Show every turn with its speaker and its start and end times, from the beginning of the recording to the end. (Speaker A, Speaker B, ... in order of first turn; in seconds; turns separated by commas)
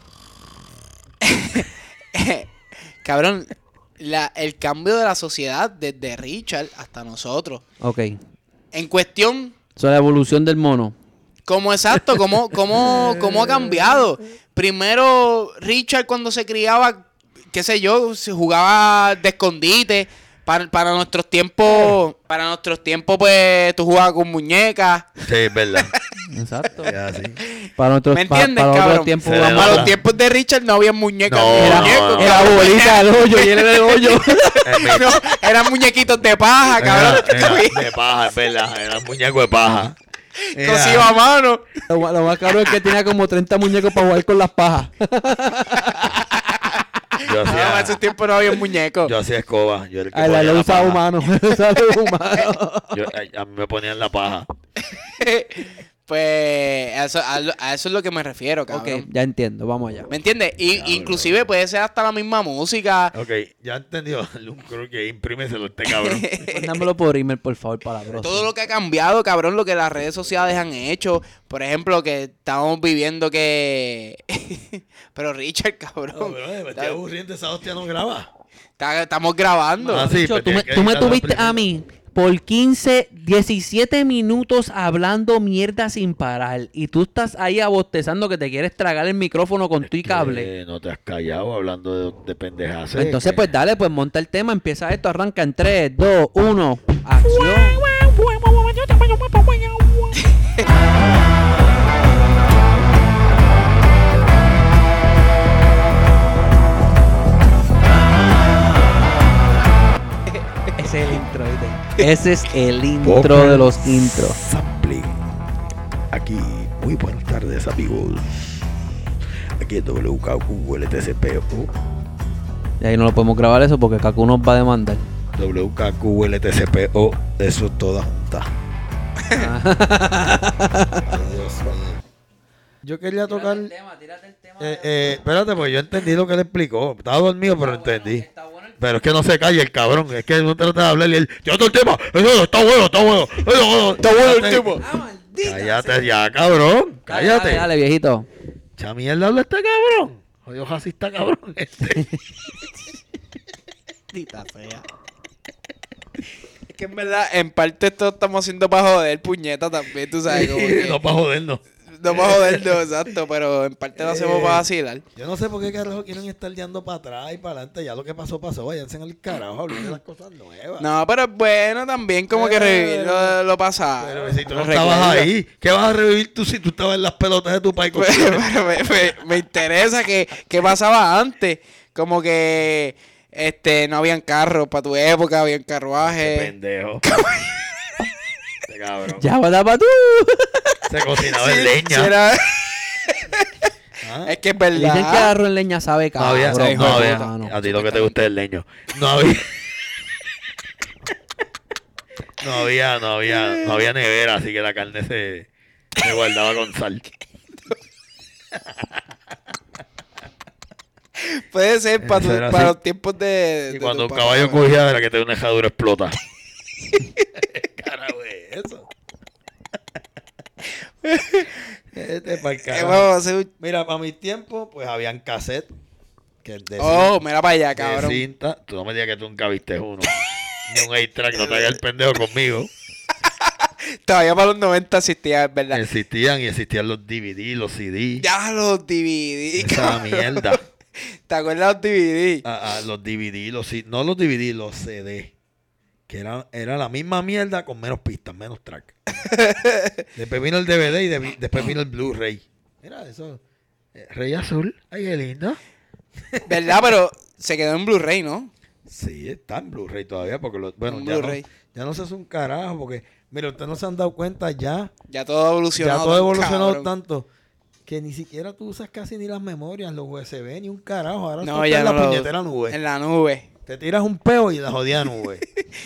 Speaker A: 1.2-2.5, Speaker A: 3.0-7.6, Speaker B: 7.8-8.2, Speaker A: 8.7-9.6, Speaker B: 9.8-10.9, Speaker A: 11.5-25.1, Speaker C: 25.2-25.9, Speaker B: 26.3-27.0, Speaker C: 26.8-27.4, Speaker A: 27.4-37.9, Speaker B: 27.8-29.9, Speaker C: 29.2-29.9, Speaker C: 31.3-32.5, Speaker B: 31.6-34.6, Speaker C: 34.6-35.1, Speaker C: 36.8-40.0, Speaker C: 40.5-41.1, Speaker A: 40.6-41.9, Speaker B: 41.9-46.3, Speaker A: 46.1-49.1, Speaker C: 47.2-48.0, Speaker C: 49.0-51.0, Speaker B: 50.1-53.0, Speaker C: 52.9-54.5, Speaker A: 55.0-59.1, Speaker B: 58.7-60.1, Speaker A: 60.1-63.1, Speaker C: 60.7-61.5, Speaker C: 63.1-66.3, Speaker A: 65.9-66.9, Speaker B: 66.5-68.5, Speaker A: 68.2-77.0, Speaker C: 76.1-78.3, Speaker A: 78.8-80.1, Speaker B: 79.9-90.5, Speaker C: 79.9-81.6, Speaker C: 89.8-93.5, Speaker B: 93.0-100.2, Speaker A: 110.3-110.7, Speaker B: 110.8-114.4, Speaker C: 113.0-115.2, Speaker C: 116.1-118.4, Speaker C: 119.6-121.7, Speaker B: 122.8-125.0, Speaker C: 125.3-128.5, Speaker A: 129.2-129.5, Speaker B: 129.3-131.1, Speaker C: 131.0-132.0, Speaker C: 132.8-133.7, Speaker B: 133.3-135.2, Speaker C: 134.6-138.3, Speaker B: 137.4-138.8, Speaker C: 138.8-144.8, Speaker A: 144.0-144.8, Speaker B: 144.8-146.1, Speaker C: 145.4-147.7, Speaker B: 147.1-148.3, Speaker C: 148.8-152.1, Speaker A: 154.1-154.8, Speaker A: 156.7-161.0, Speaker C: 160.3-162.9, Speaker A: 162.0-165.0, Speaker C: 164.0-170.9, Speaker A: 170.8-175.3, Speaker C: 172.3-173.4, Speaker C: 174.0-178.5, Speaker A: 177.9-186.5, Speaker C: 186.0-187.0, Speaker A: 187.1-187.6, Speaker C: 188.7-189.2, Speaker B: 189.2-190.8, Speaker C: 190.9-192.1, Speaker A: 191.2-193.7, Speaker C: 194.0-194.4, Speaker A: 194.2-195.3, Speaker B: 194.8-198.1, Speaker C: 196.2-199.6, Speaker A: 196.5-197.3, Speaker C: 202.4-207.0, Speaker A: 203.3-203.8, Speaker C: 208.5-209.0, Speaker A: 211.2-214.7, Speaker C: 212.0-212.7, Speaker C: 213.7-216.2, Speaker C: 217.3-218.9, Speaker A: 221.0-221.6, Speaker C: 221.9-225.7, Speaker A: 222.3-223.5, Speaker C: 226.4-227.1, Speaker A: 226.8-228.3, Speaker C: 227.8-232.7, Speaker A: 231.3-231.8, Speaker A: 233.4-235.8, Speaker C: 235.7-238.3, Speaker A: 238.2-240.6, Speaker C: 239.6-240.6, Speaker A: 241.3-242.4, Speaker C: 242.4-245.3, Speaker C: 246.1-248.9, Speaker A: 249.2-250.0, Speaker C: 250.2-253.4, Speaker C: 253.9-255.6, Speaker C: 256.2-256.8, Speaker A: 256.5-258.5, Speaker C: 258.9-264.9, Speaker A: 260.9-261.4, Speaker A: 265.1-266.9, Speaker C: 265.8-267.3, Speaker C: 267.9-272.8, Speaker A: 271.4-273.5, Speaker C: 273.7-275.5